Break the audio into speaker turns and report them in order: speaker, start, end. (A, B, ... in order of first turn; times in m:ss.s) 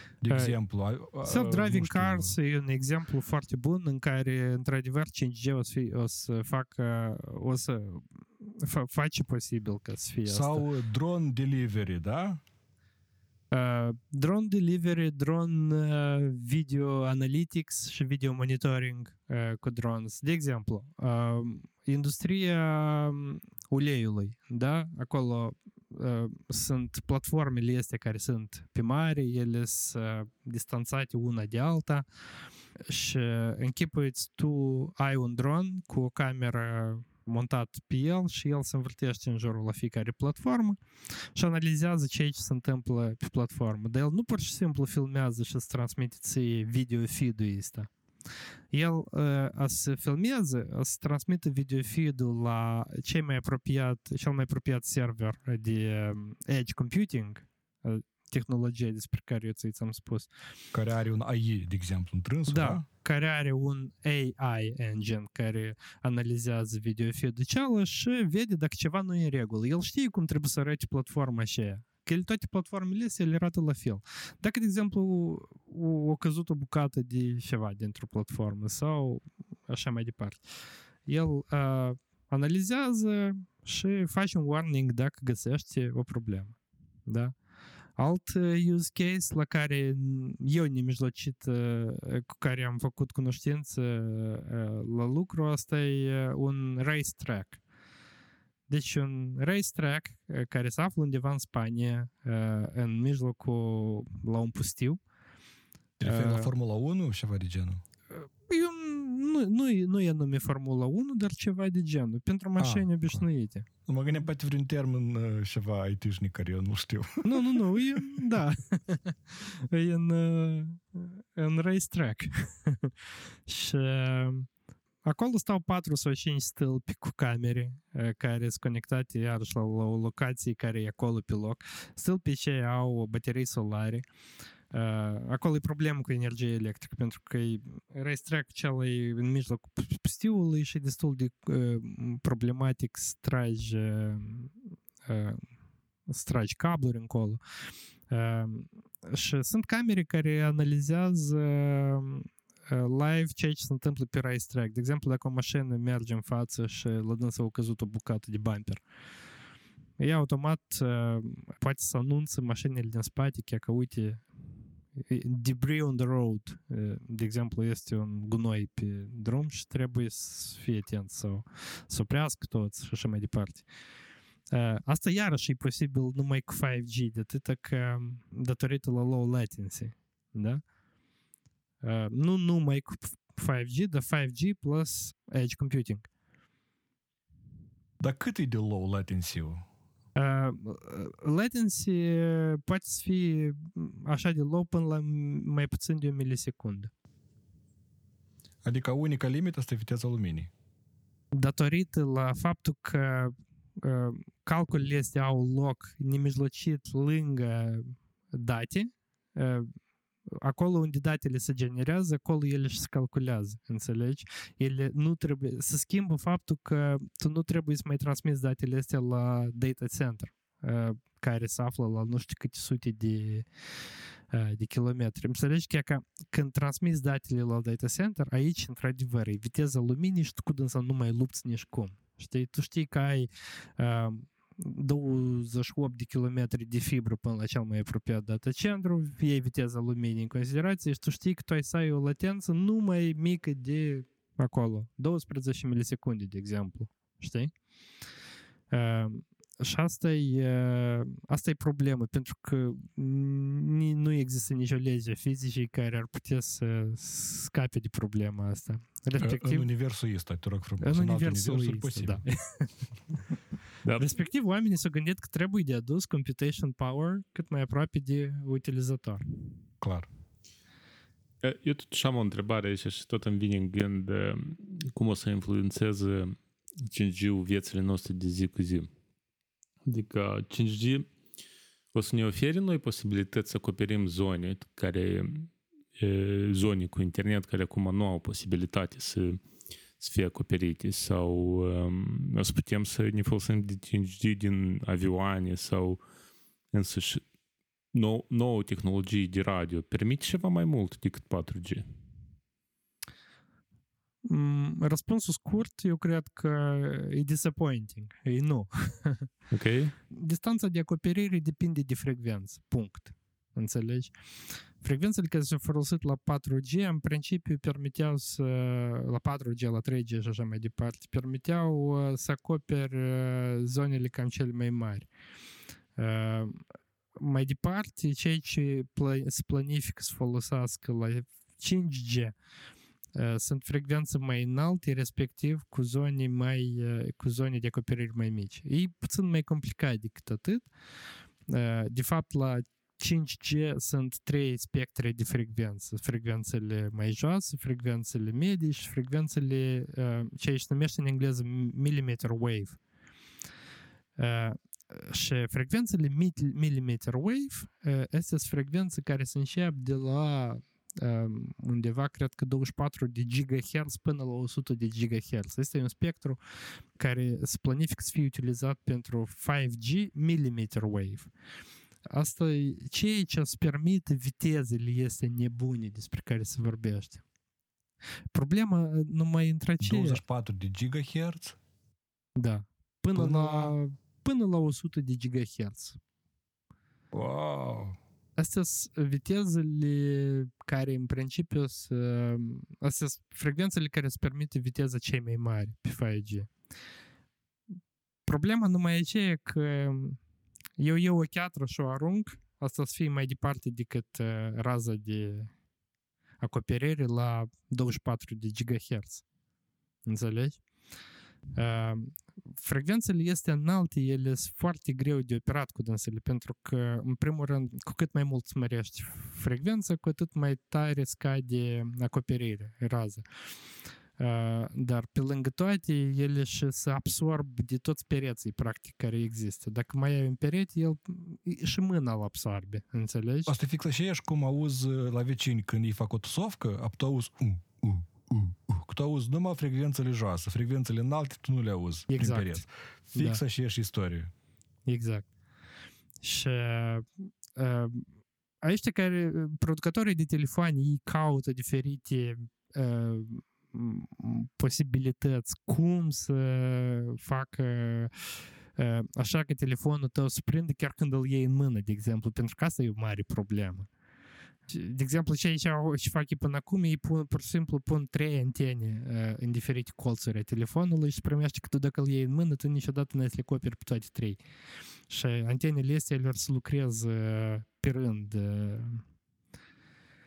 0:00.2-0:02.3 A
0:00.3-0:00.6 B
0:01.2-0:10.7 B
0:10.2-0:12.4 A
0:13.5-0:32.0 B
0:32.9-0:40.8 B
0:41.3-0:47.9 B
0:48.7-1:00.3 B
1:00.7-1:02.8 A
1:02.5-1:20.4 B
1:21.0-1:26.5 B
1:27.1-1:27.3 B
1:28.0-1:37.6 B
1:38.7-1:45.0 B
1:46.0-1:47.8 A
1:46.0-1:46.5 B
1:48.1-1:53.6 B
1:52.6-1:53.2 A
1:53.8-1:58.2 A
1:57.2-2:02.9 B
2:03.5-2:04.5 B
2:05.0-2:14.1 B
2:14.7-2:24.5 B
2:25.0-2:25.4 B
2:26.1-2:27.4 B
2:28.1-2:38.8 B
2:40.0-2:44.2 B
2:45.0-2:53.6 B
2:54.5-3:00.6 B
3:01.8-3:06.1 B
3:08.0-3:09.6 A
3:10.2-3:16.9 B
3:18.6-3:20.5 A
3:21.3-3:29.7 B
3:30.3-3:43.5 B
3:44.3-4:07.5 B
4:08.7-4:19.7 B
4:19.2-4:22.2 A
4:20.8-4:22.7 B
4:23.8-4:24.1 C
4:24.0-4:29.2 B
4:29.8-4:30.1 A
4:31.4-4:38.9 C
4:39.8-4:41.0 C
4:41.9-4:49.4 C
4:50.0-4:56.0 C
4:56.7-4:57.2 C
4:57.9-5:01.8 C
5:04.2-5:09.3 B
5:09.5-5:09.9 C
5:10.1-5:14.1 B
5:14.8-5:25.1 B
5:26.0-5:26.6 B
5:27.2-5:32.3 B
5:33.1-5:40.6 B
5:41.5-5:52.8 B
5:54.2-6:06.4 B
6:07.0-6:11.3 B
6:12.1-6:17.2 B
6:18.3-6:20.2 B
6:19.8-6:21.6 A
6:22.4-6:26.0 B
6:23.2-6:23.7 A
6:27.1-6:28.0 A
6:28.4-6:36.5 B
6:38.3-6:40.2 B
6:40.8-6:45.5 B
6:46.4-6:49.2 B
6:50.0-6:50.6 B
6:51.6-7:03.2 B
7:04.2-7:13.5 B
7:13.4-7:24.3 A
7:22.1-7:22.6 B
7:24.9-7:25.2 B
7:26.2-7:28.1 B
7:28.6-7:38.1 B
7:38.8-7:43.9 B
7:44.7-7:54.4 B
7:55.1-7:59.0 B